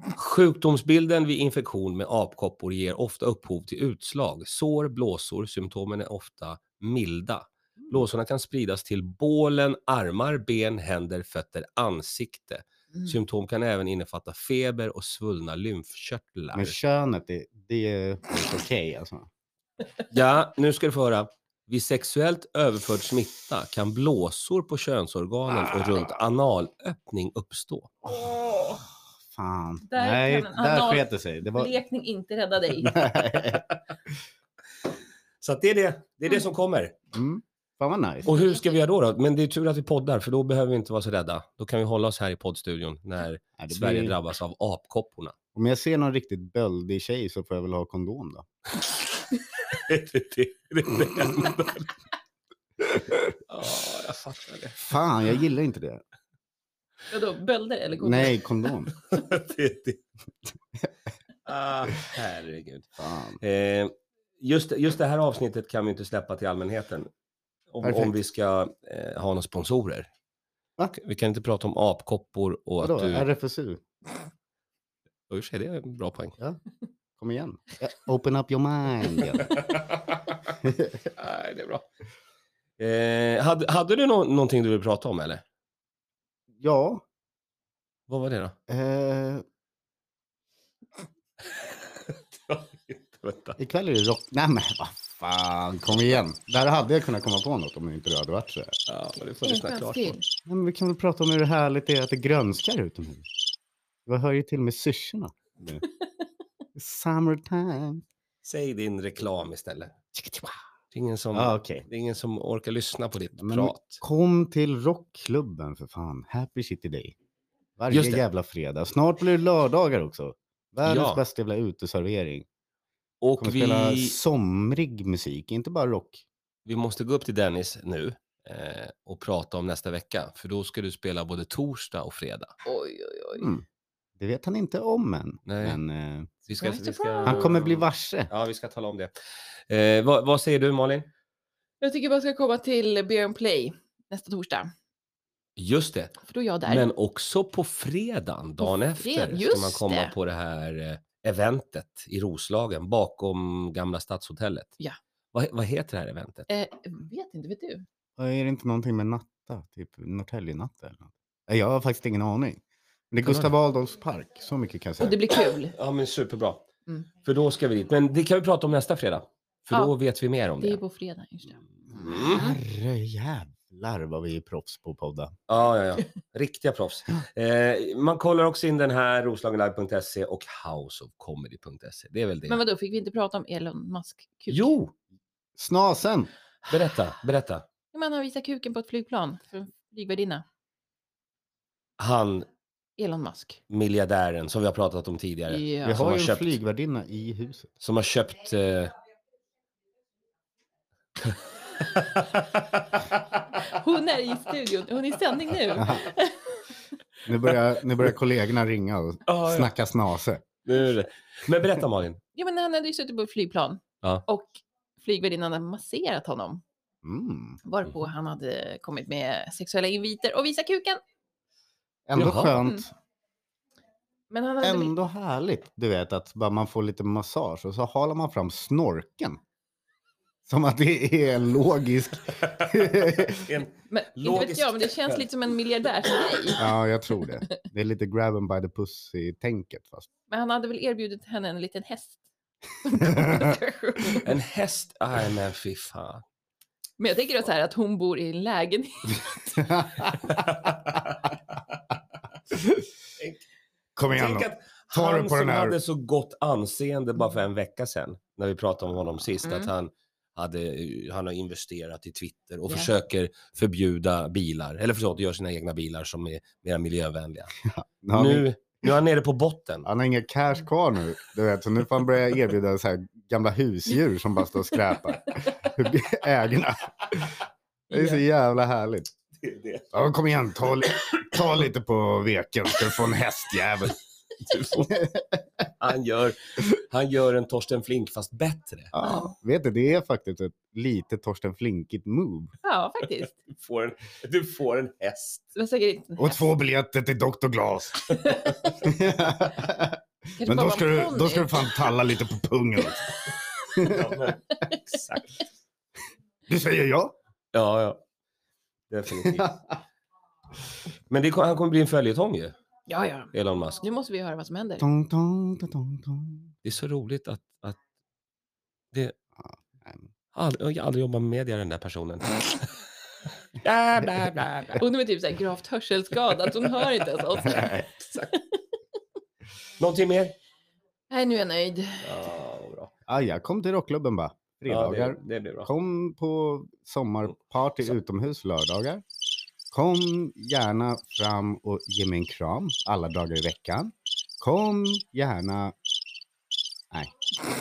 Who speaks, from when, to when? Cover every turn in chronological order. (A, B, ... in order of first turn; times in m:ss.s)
0:00.1-0:16.8 A
0:16.5-0:19.3 B
0:20.1-0:28.0 A
0:29.3-0:31.7 B
0:29.9-0:33.1 C
0:32.8-0:33.6 B
0:33.2-0:33.8 A
0:35.4-0:36.9 A
0:37.1-0:38.3 B
0:38.2-0:45.3 A
0:38.3-0:38.6 C
0:43.6-0:44.2 B
0:45.5-0:48.5 B
0:49.7-0:51.9 A
0:52.8-0:53.3 B
0:53.5-0:54.8 A
0:54.8-0:56.0 B
0:57.1-0:58.7 C
0:58.0-0:58.9 B
0:59.0-1:00.0 A
1:01.4-1:07.1 A
1:03.0-1:03.4 B
1:07.7-1:10.1 A
1:07.8-1:08.1 B
1:10.9-1:13.3 A
1:12.8-1:13.8 B
1:15.3-1:16.4 A
1:17.2-1:19.5 B
1:19.4-1:20.4 A
1:20.6-1:21.0 B
1:21.1-1:21.9 A
1:22.8-1:25.4 A
1:26.6-1:27.0 B
1:28.1-1:28.6 A
1:28.7-1:29.4 B
1:31.5-1:33.6 A
1:33.6-1:38.8 B
1:38.9-1:40.2 A
1:39.4-1:40.2 C
1:40.4-1:43.3 B
1:44.0-1:45.8 B
1:46.8-1:48.0 B
1:48.4-1:50.0 A
1:50.1-1:50.5 B
1:50.9-1:54.0 A
1:51.3-1:51.8 B
1:53.4-1:57.2 B
1:57.8-2:02.4 B
1:57.9-1:58.2 A
2:00.8-2:01.2 A
2:03.2-2:04.2 A
2:03.4-2:06.2 B
2:06.6-2:12.5 A
2:12.6-2:13.5 C
2:13.4-2:13.6 B
2:14.2-2:16.3 B
2:15.4-2:15.8 A
2:16.4-2:19.1 A
2:16.6-2:17.5 C
2:17.2-2:18.3 B
2:19.7-2:21.1 A
2:21.8-2:24.7 C
2:25.6-2:34.7 A
2:26.2-2:26.9 C
2:28.6-2:30.1 C
2:35.3-2:36.5 A
2:36.5-2:37.8 C
2:38.2-2:45.2 B
2:43.2-2:43.5 A
2:45.0-2:45.7 C
2:45.7-2:46.7 A
2:47.2-2:50.8 A
2:50.6-2:52.6 C
2:51.9-2:52.5 A
2:52.2-2:55.3 B
2:55.5-3:02.6 A
3:02.5-3:04.7 C
3:04.5-3:04.9 A
3:05.6-3:06.3 B
3:06.6-3:07.6 A
3:07.9-3:10.4 C
3:12.0-3:12.5 A
3:13.0-3:13.6 C
3:13.7-3:16.6 A
3:15.5-3:16.0 C
3:15.8-3:17.7 B
3:17.8-3:18.9 A
3:21.2-3:23.6 A
3:23.6-3:26.7 C
3:25.8-3:26.1 B
3:27.2-3:30.4 B
3:29.3-3:29.7 A
3:30.6-3:32.2 A
3:32.4-3:36.6 C
3:37.0-3:37.6 B
3:37.6-3:41.0 C
3:42.1-3:42.9 B
3:42.1-3:42.6 A
3:44.3-3:44.9 C
3:44.6-3:49.4 B
3:50.4-3:53.4 B
3:52.4-3:55.2 A
3:53.9-3:56.7 C
3:56.6-4:00.1 B
4:00.3-4:02.2 C
4:02.8-4:04.3 C
4:03.1-4:03.4 B
4:04.2-4:06.2 A
4:07.0-4:09.8 C
4:09.6-4:10.0 B
4:10.3-4:11.8 A
4:14.0-4:15.8 B
4:14.1-4:27.5 A
4:19.4-4:19.7 C
4:27.6-4:28.5 B
4:28.1-4:29.9 A
4:29.8-4:39.1 B
4:37.9-4:38.2 C
4:39.4-4:40.0 A
4:39.9-4:44.0 B
4:44.4-4:45.0 A
4:44.9-4:45.3 B
4:45.8-4:48.9 A
4:48.9-4:52.5 B
4:49.0-4:49.3 C
4:52.6-4:53.4 C
4:53.4-4:55.5 A
4:55.6-4:56.4 C
4:56.2-4:58.2 B
4:58.2-4:58.8 A
4:58.3-4:58.5 C
4:58.8-5:03.1 B
5:00.4-5:01.9 C
5:03.7-5:04.3 B
5:03.8-5:05.4 A
5:06.5-5:07.1 B
5:07.5-5:08.0 A
5:08.9-5:09.6 A
5:09.2-5:09.6 B
5:11.1-5:12.5 A
5:12.9-5:14.9 C
5:13.3-5:13.8 A
5:14.8-5:16.5 B
5:16.6-5:17.8 A
5:19.4-5:20.1 B
5:20.3-5:22.7 A
5:23.6-5:24.8 A
5:24.8-5:27.8 C
5:26.5-5:26.8 A
5:27.4-5:27.8 B
5:28.0-5:28.3 A
5:29.8-5:30.3 A
5:31.1-5:32.0 C
5:32.0-5:32.9 A
5:33.1-5:39.0 B
5:34.7-5:35.7 A
5:39.7-5:45.7 B